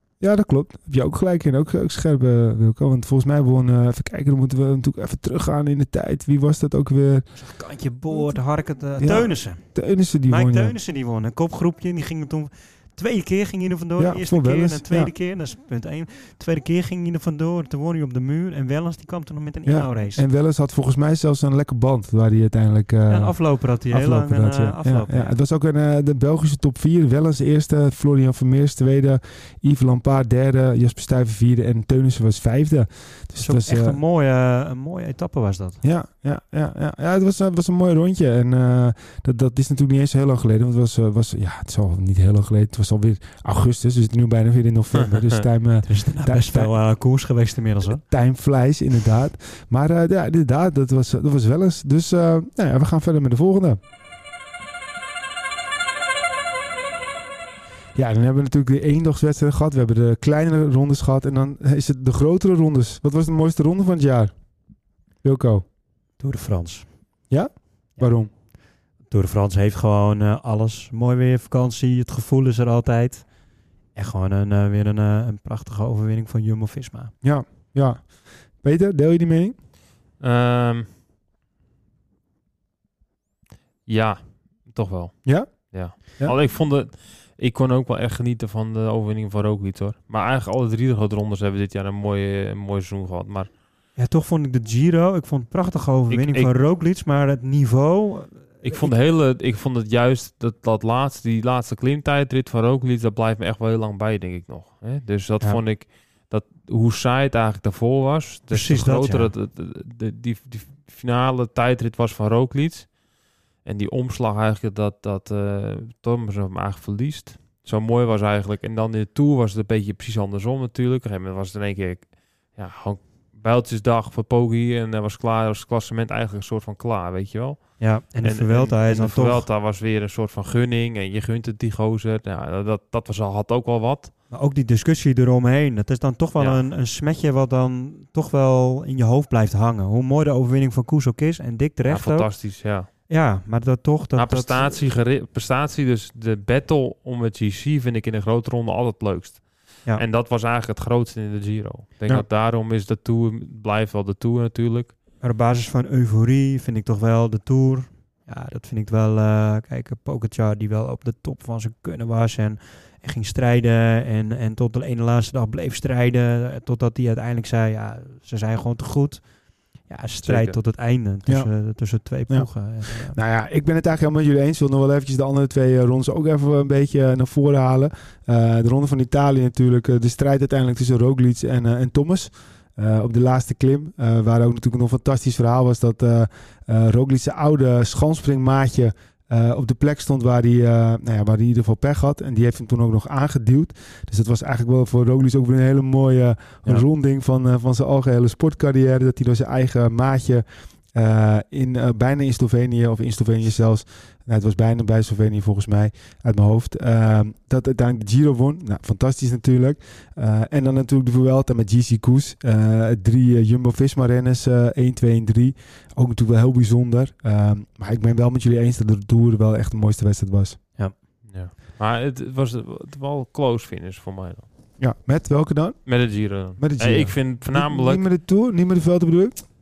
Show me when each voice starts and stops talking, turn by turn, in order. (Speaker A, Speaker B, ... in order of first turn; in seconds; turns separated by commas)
Speaker A: 0.2-7.3, Speaker B: 7.3-9.6, Speaker A: 9.0-10.8, Speaker B: 10.3-20.2, Speaker A: 14.0-15.1, Speaker A: 19.6-34.0, Speaker B: 23.1-25.4, Speaker B: 33.4-35.8, Speaker A: 35.8-46.7, Speaker B: 45.8-48.0, Speaker A: 48.0-53.8, Speaker A: 57.9-64.3, Speaker A: 65.2-65.6, Speaker B: 66.2-66.8, Speaker A: 67.3-68.3, Speaker B: 69.1-73.2, Speaker B: 73.9-77.1, Speaker A: 77.2-79.5, Speaker C: 80.2-80.9, Speaker C: 83.9-93.5, Speaker A: 85.2-86.3, Speaker B: 94.0-98.9, Speaker C: 96.1-96.5, Speaker C: 98.6-112.9, Speaker B: 108.5-109.3, Speaker C: 113.6-134.1, Speaker B: 127.8-129.4, Speaker B: 134.3-142.3, Speaker C: 141.9-142.9, Speaker B: 143.1-144.8, Speaker C: 144.2-154.9, Speaker B: 155.2-169.2, Speaker B: 169.8-173.2, Speaker C: 170.2-170.6, Speaker A: 172.3-220.6, Speaker C: 221.3-224.4, Speaker A: 224.8-225.8, Speaker C: 225.8-228.0, Speaker A: 226.6-229.4